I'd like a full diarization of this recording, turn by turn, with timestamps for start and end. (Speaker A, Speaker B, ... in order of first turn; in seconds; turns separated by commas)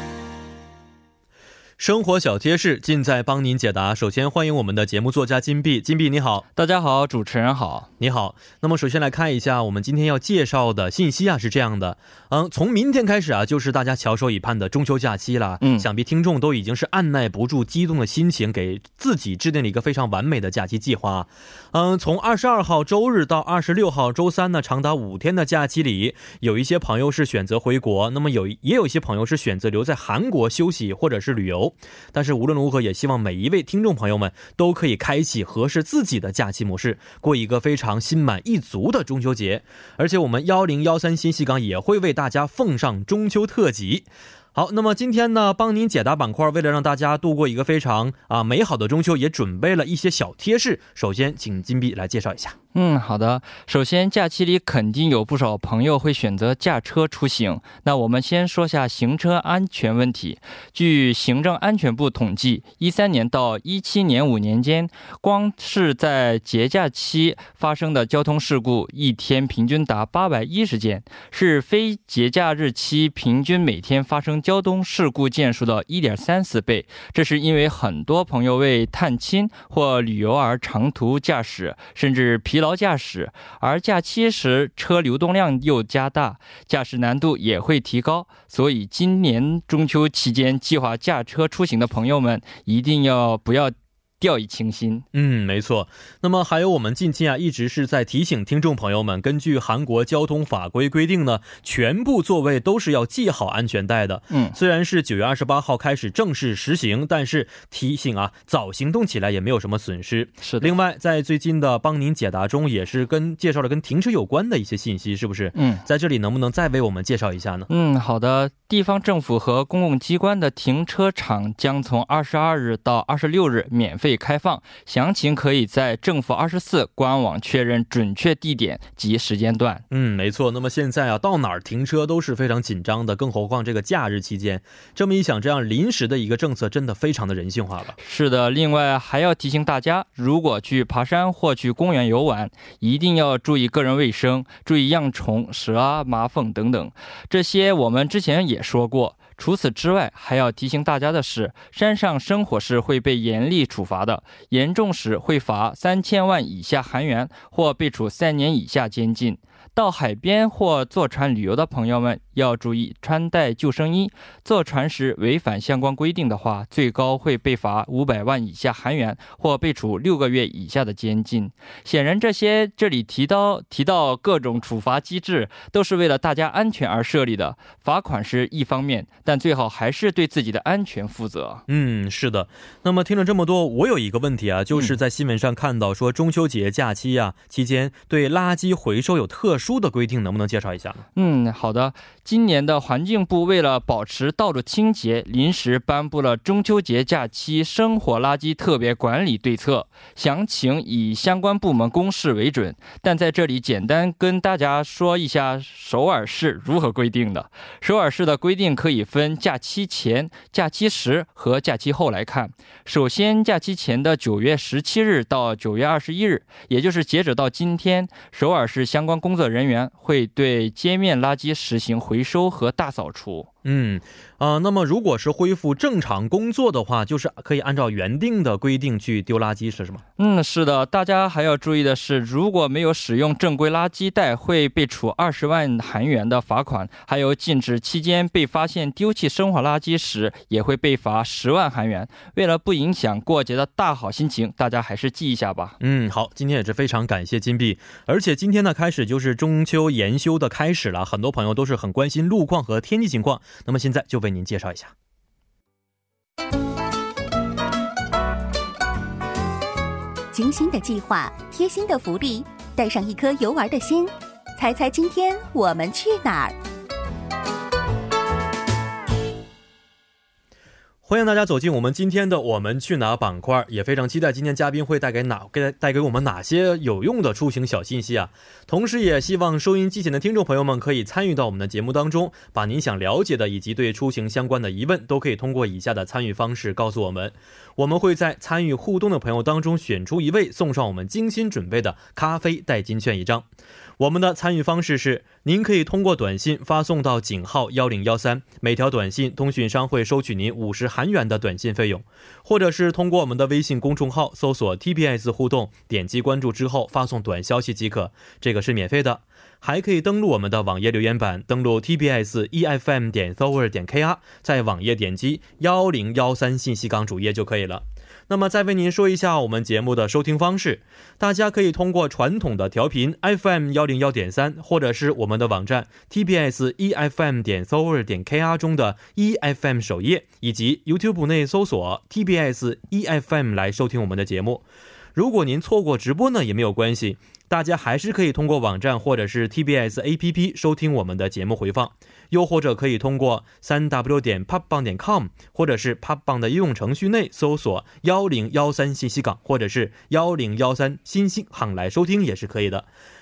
Speaker A: 1.8-6.4, Speaker B: 6.5-7.9, Speaker A: 8.0-52.5, Speaker B: 15.6-15.9, Speaker B: 52.7-95.0, Speaker A: 95.1-117.7, Speaker B: 104.3-104.5, Speaker B: 110.4-110.7, Speaker B: 115.5-115.8, Speaker B: 117.7-129.8, Speaker A: 129.9-138.0, Speaker B: 138.0-181.6, Speaker A: 181.7-191.0, Speaker B: 191.2-223.5, Speaker A: 223.6-230.0, Speaker B: 230.2-245.7, Speaker A: 245.8-254.9, Speaker C: 260.3-266.6, Speaker A: 271.0-293.5, Speaker A: 294.0-334.6, Speaker A: 335.1-352.9